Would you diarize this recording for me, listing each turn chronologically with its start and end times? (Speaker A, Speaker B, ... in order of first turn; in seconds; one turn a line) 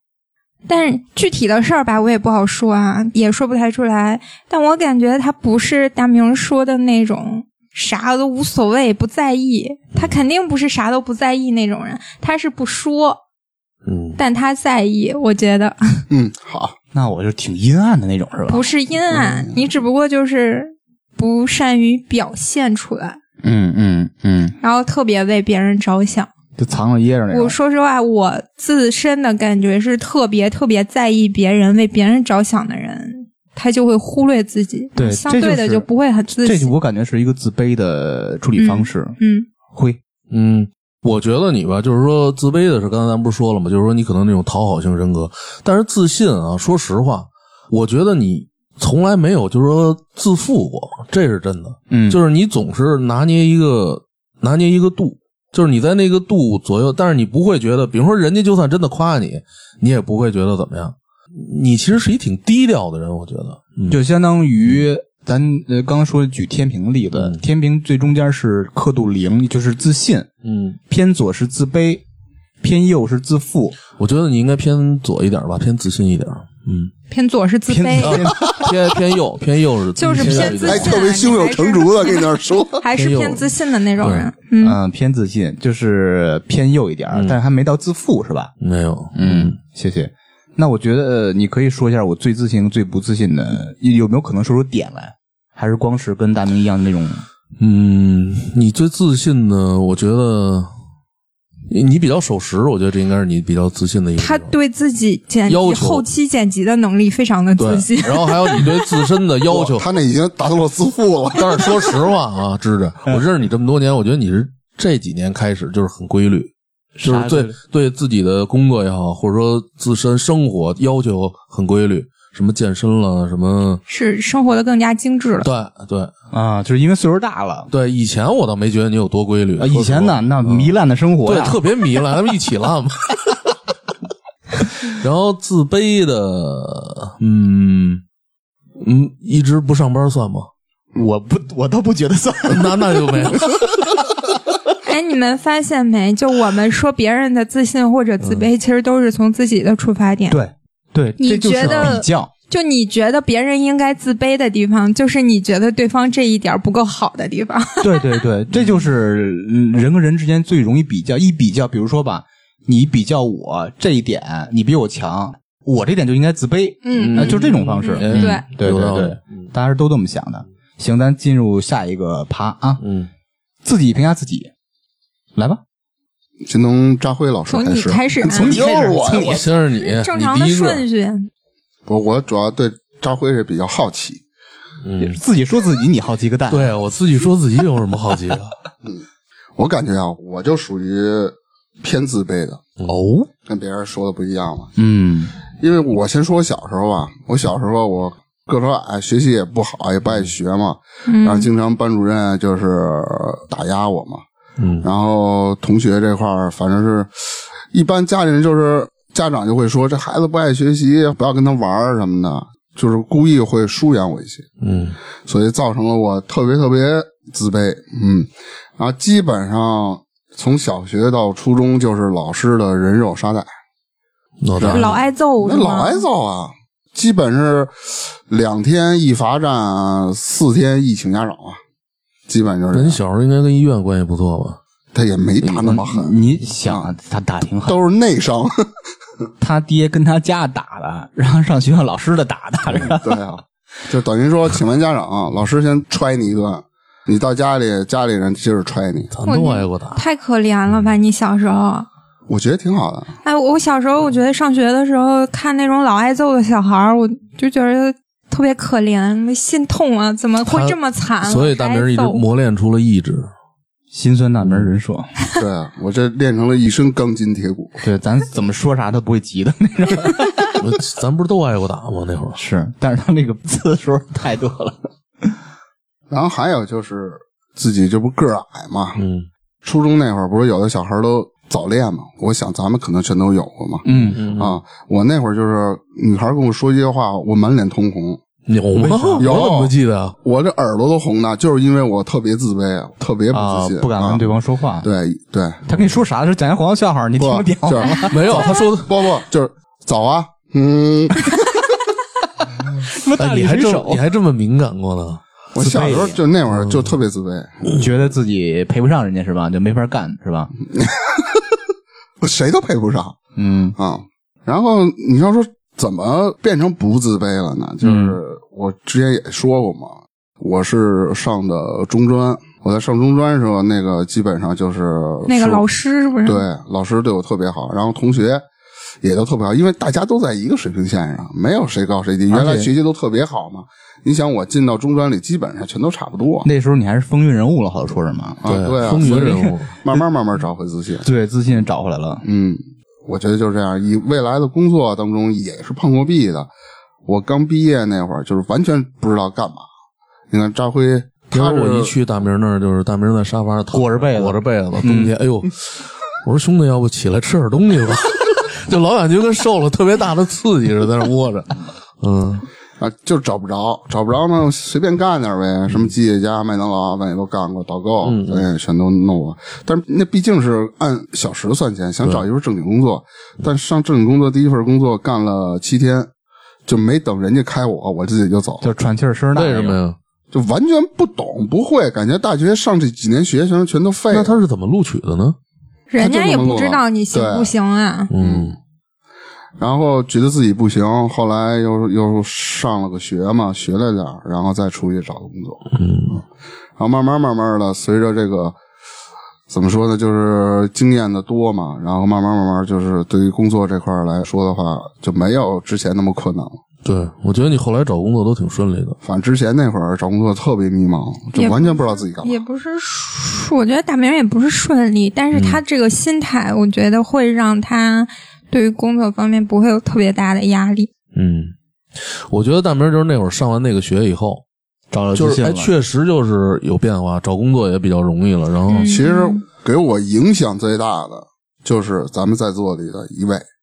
Speaker A: 0.7-13.2
Speaker B: 9.9-10.2
Speaker B: 13.8-14.2
Speaker A: 14.2-16.0
Speaker C: 16.1-16.7
Speaker D: 16.9-18.7
Speaker A: 18.5-23.2
Speaker C: 19.2-19.5
Speaker D: 23.4-24.5
Speaker A: 24.6-26.3
Speaker D: 26.6-27.6
Speaker A: 27.3-36.7
Speaker D: 35.0-35.9
Speaker D: 36.4-39.2
Speaker A: 38.6-39.5
Speaker D: 39.7-40.0
Speaker B: 40.3-64.0
Speaker D: 51.9-52.2
Speaker D: 63.9-70.3
Speaker B: 67.1-67.4
Speaker B: 70.4-70.8
Speaker D: 70.9-72.0
Speaker D: 72.6-73.8
Speaker B: 74.0-76.9
Speaker A: 77.1-78.3
Speaker D: 77.7-78.6
Speaker B: 78.0-81.0
Speaker A: 80.0-84.8
Speaker D: 80.1-80.5
Speaker C: 80.5-82.8
Speaker B: 82.9-84.3
Speaker D: 84.6-88.5
Speaker B: 88.6-89.5
Speaker D: 89.1-97.2
Speaker B: 97.6-100.7
Speaker B: 101.7-104.5
Speaker A: 104.2-109.0
Speaker B: 105.5-106.0
Speaker B: 107.6-109.8
Speaker C: 109.5-111.8
Speaker B: 111.3-116.5
Speaker D: 117.0-117.5
Speaker B: 117.0-123.8
Speaker A: 123.9-125.5
Speaker B: 125.4-126.1
Speaker D: 126.3-127.7
Speaker B: 127.7-130.7
Speaker D: 129.6-131.6
Speaker B: 131.2-133.4
Speaker B: 134.8-138.0
Speaker B: 138.8-140.5
Speaker D: 140.9-142.8
Speaker B: 142.5-143.9
Speaker A: 144.8-150.4
Speaker B: 148.2-148.5
Speaker D: 150.3-152.3
Speaker A: 151.2-158.0
Speaker B: 151.6-152.0
Speaker D: 157.8-172.8
Speaker A: 166.8-168.4
Speaker B: 166.9-169.5
Speaker B: 172.8-173.1
Speaker D: 173.6-174.5
Speaker D: 175.3-175.6
Speaker C: 176.4-179.5
Speaker A: 177.5-178.7
Speaker D: 178.2-179.4
Speaker B: 179.1-180.8
Speaker A: 179.8-181.3
Speaker C: 181.9-184.2
Speaker B: 184.8-185.2
Speaker D: 185.0-186.8
Speaker B: 186.5-188.5
Speaker C: 189.6-192.6
Speaker B: 192.8-193.2
Speaker D: 192.9-193.3
Speaker C: 193.4-194.7
Speaker D: 194.8-195.3
Speaker C: 195.5-204.2
Speaker A: 201.1-201.5
Speaker B: 204.6-204.9
Speaker C: 204.8-214.4
Speaker B: 214.6-214.9
Speaker C: 215.2-223.5
Speaker B: 224.4-225.0
Speaker C: 224.6-231.6
Speaker A: 224.7-226.0
Speaker C: 232.3-233.0
Speaker B: 232.7-234.6
Speaker C: 234.9-236.1
Speaker D: 235.4-237.8
Speaker C: 237.7-238.7
Speaker D: 239.4-243.2
Speaker C: 242.9-249.1
Speaker B: 249.1-250.0
Speaker A: 249.2-251.9
Speaker C: 252.3-253.1
Speaker A: 253.2-262.2
Speaker B: 260.4-263.3
Speaker D: 263.9-265.1
Speaker C: 265.4-267.8
Speaker D: 267.8-270.4
Speaker B: 270.6-272.4
Speaker D: 272.3-275.3
Speaker C: 276.1-279.0
Speaker B: 278.9-279.3
Speaker C: 279.6-288.2
Speaker D: 283.8-284.2
Speaker B: 284.1-284.6
Speaker B: 288.5-290.1
Speaker D: 288.8-289.3
Speaker C: 289.2-294.2
Speaker D: 293.3-294.9
Speaker C: 294.8-295.7
Speaker D: 295.6-298.4
Speaker C: 297.2-301.6
Speaker B: 298.1-299.0
Speaker D: 302.8-304.0
Speaker B: 303.2-305.2
Speaker C: 305.5-307.7
Speaker D: 305.5-306.2
Speaker B: 306.5-306.9
Speaker D: 307.7-310.5
Speaker C: 310.7-311.6
Speaker C: 312.2-313.2
Speaker D: 313.4-313.8
Speaker C: 313.8-325.6
Speaker D: 317.8-318.1
Speaker A: 325.2-326.4
Speaker C: 326.2-328.4
Speaker C: 329.0-336.5
Speaker D: 332.3-332.7
Speaker D: 336.4-340.0
Speaker C: 338.4-339.3
Speaker B: 338.4-339.7
Speaker C: 339.8-341.1
Speaker D: 341.0-342.2
Speaker C: 342.2-346.5
Speaker C: 347.1-349.6
Speaker C: 350.3-351.9
Speaker B: 351.3-362.5
Speaker D: 353.7-355.1
Speaker C: 362.8-376.1
Speaker B: 368.0-368.5
Speaker C: 376.6-378.6
Speaker D: 378.6-379.8
Speaker B: 379.3-380.0
Speaker C: 380.3-384.3
Speaker B: 384.1-385.4
Speaker A: 385.9-388.1
Speaker C: 386.0-387.5
Speaker B: 388.1-388.6
Speaker C: 388.2-388.6
Speaker C: 389.6-396.2
Speaker B: 395.7-396.2
Speaker C: 396.8-398.6
Speaker C: 399.5-406.6
Speaker B: 406.8-409.0
Speaker C: 409.0-412.4
Speaker A: 411.4-420.9
Speaker B: 415.3-415.6
Speaker B: 421.1-424.4
Speaker D: 424.9-425.7
Speaker B: 425.1-429.0
Speaker A: 428.7-429.4
Speaker C: 428.7-433.4